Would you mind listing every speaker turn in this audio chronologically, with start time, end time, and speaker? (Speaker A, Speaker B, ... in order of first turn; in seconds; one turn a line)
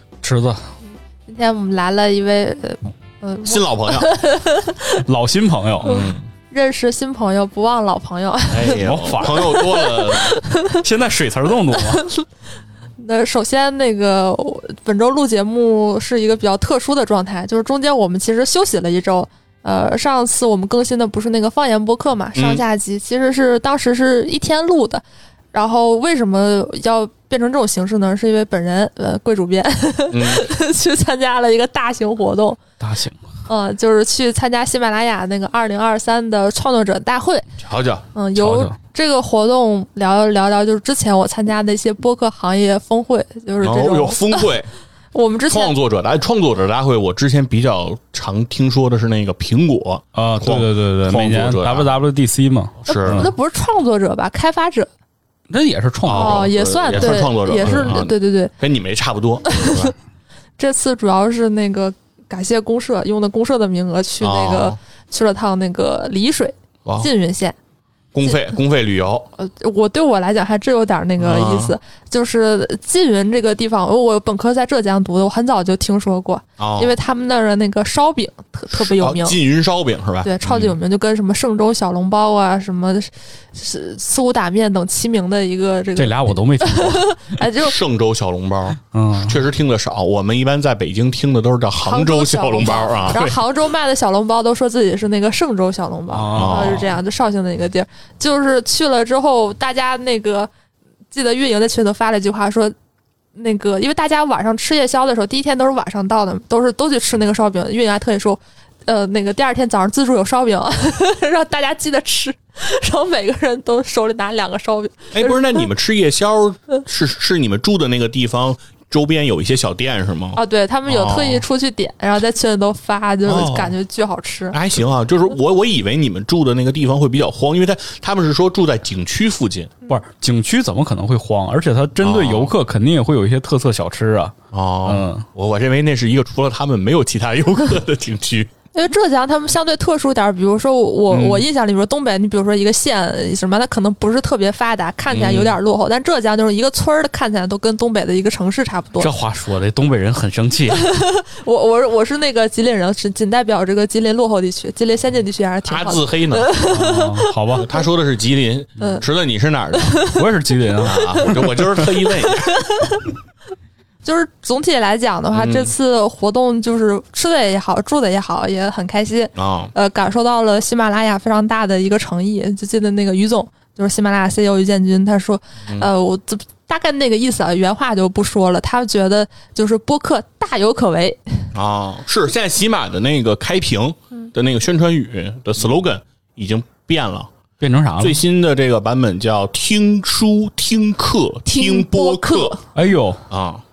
Speaker A: 0.2-0.6
Speaker B: 1.3-5.0
Speaker C: 3.5-4.1
Speaker A: 5.0-6.0
Speaker C: 5.8-6.3
Speaker B: 5.9-10.8
Speaker C: 8.5-10.4
Speaker A: 8.8-9.6
Speaker A: 10.7-12.0
Speaker B: 11.8-12.3
Speaker B: 13.0-32.6
Speaker C: 22.4-22.6
Speaker C: 30.1-30.5
Speaker A: 32.8-33.2
Speaker B: 33.5-37.5
Speaker C: 37.6-38.1
Speaker B: 38.1-44.5
Speaker A: 38.4-38.7
Speaker C: 43.6-44.7
Speaker B: 45.1-45.7
Speaker C: 45.5-51.9
Speaker A: 50.1-53.3
Speaker C: 52.9-53.3
Speaker B: 52.9-54.9
Speaker A: 55.5-58.0
Speaker C: 56.0-60.0
Speaker B: 56.1-58.5
Speaker B: 59.5-59.9
Speaker B: 60.6-67.6
Speaker C: 64.2-64.8
Speaker C: 68.1-69.3
Speaker B: 69.4-79.4
Speaker C: 71.2-71.8
Speaker C: 76.6-76.9
Speaker C: 78.7-80.8
Speaker B: 80.2-87.8
Speaker A: 86.0-87.2
Speaker C: 87.6-93.4
Speaker A: 88.9-89.4
Speaker B: 91.8-100.5
Speaker A: 96.1-96.9
Speaker C: 96.3-96.9
Speaker B: 101.1-102.7
Speaker B: 103.3-115.6
Speaker C: 115.1-121.4
Speaker B: 120.3-124.6
Speaker C: 123.3-123.7
Speaker C: 124.5-129.8
Speaker A: 129.9-135.3
Speaker C: 132.0-132.5
Speaker C: 134.5-138.5
Speaker B: 138.7-149.1
Speaker C: 141.1-141.4
Speaker C: 145.1-145.6
Speaker A: 149.0-150.9
Speaker B: 150.7-157.3
Speaker C: 155.7-156.5
Speaker A: 156.7-157.7
Speaker C: 157.6-160.0
Speaker B: 159.7-160.2
Speaker A: 160.1-161.6
Speaker C: 160.8-162.6
Speaker B: 160.9-163.1
Speaker B: 164.0-181.4
Speaker C: 165.3-165.7
Speaker C: 169.4-169.7
Speaker C: 181.5-187.3
Speaker A: 187.6-188.2
Speaker C: 188.0-192.6
Speaker B: 191.5-192.6
Speaker A: 192.8-193.3
Speaker C: 193.3-193.6